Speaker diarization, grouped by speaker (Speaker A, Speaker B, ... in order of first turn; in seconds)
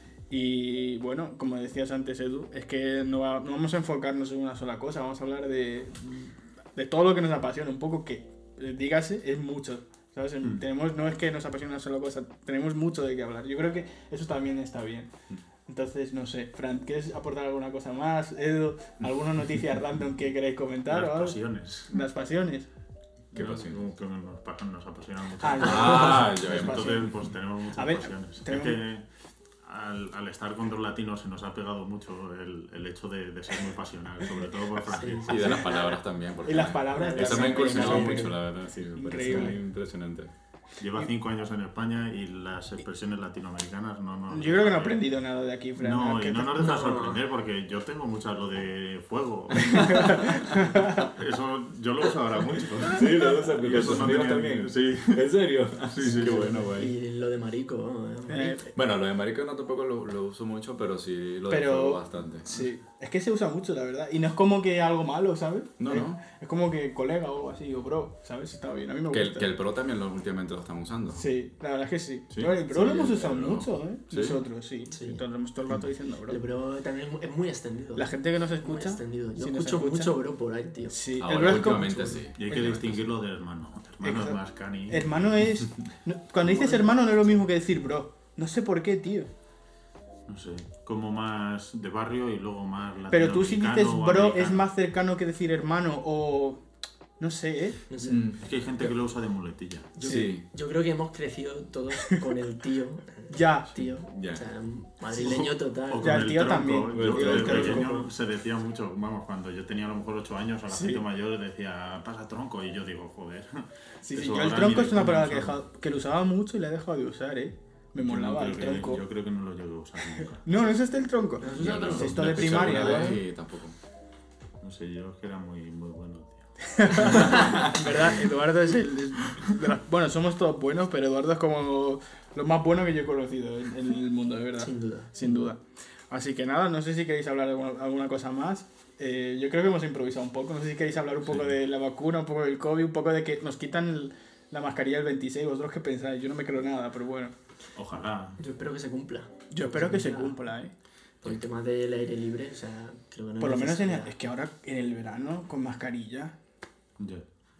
Speaker A: 0.3-15.1, 15.7-22.7, 25.4-28.8, 36.4-38.4, 39.0-39.6, 44.3-46.6, 49.9-50.8, 58.3-58.7, 61.5-69.5, 71.1-76.4, 78.0-80.2, 80.9-82.2, 84.0-89.3, 93.1-96.6, 97.2-97.8, 103.3-103.7, 106.0-108.0, 110.7-111.0, 114.0-119.0, 120.2-123.2, 126.8-147.3, 149.5-150.7, 153.4-156.3
Speaker B: 20.9-21.9, 23.3-29.1, 29.6-35.9, 37.0-38.3, 39.3-39.5, 40.8-45.0, 45.8-53.1, 53.6-55.2, 55.9-56.5, 82.3-85.3, 90.3-94.7, 98.4-99.9, 105.2-115.6, 118.0-120.8, 124.6-127.6, 147.8-148.4, 157.0-157.2
Speaker C: 23.3-23.9, 25.5-26.9, 35.2-40.3, 52.9-56.9, 58.7-62.5, 65.8-66.2, 69.1-71.2, 72.3-74.4, 81.2-83.0, 98.0-98.4, 100.0-100.5, 103.8-104.4, 106.9-107.9, 121.6-123.8
Speaker D: 34.9-35.6, 46.6-47.2, 56.2-58.7, 74.9-75.2, 76.3-82.2, 86.4-87.4, 97.9-98.9, 100.0-106.3, 121.4-123.2, 134.6-135.5, 148.4-150.4, 151.2-154.2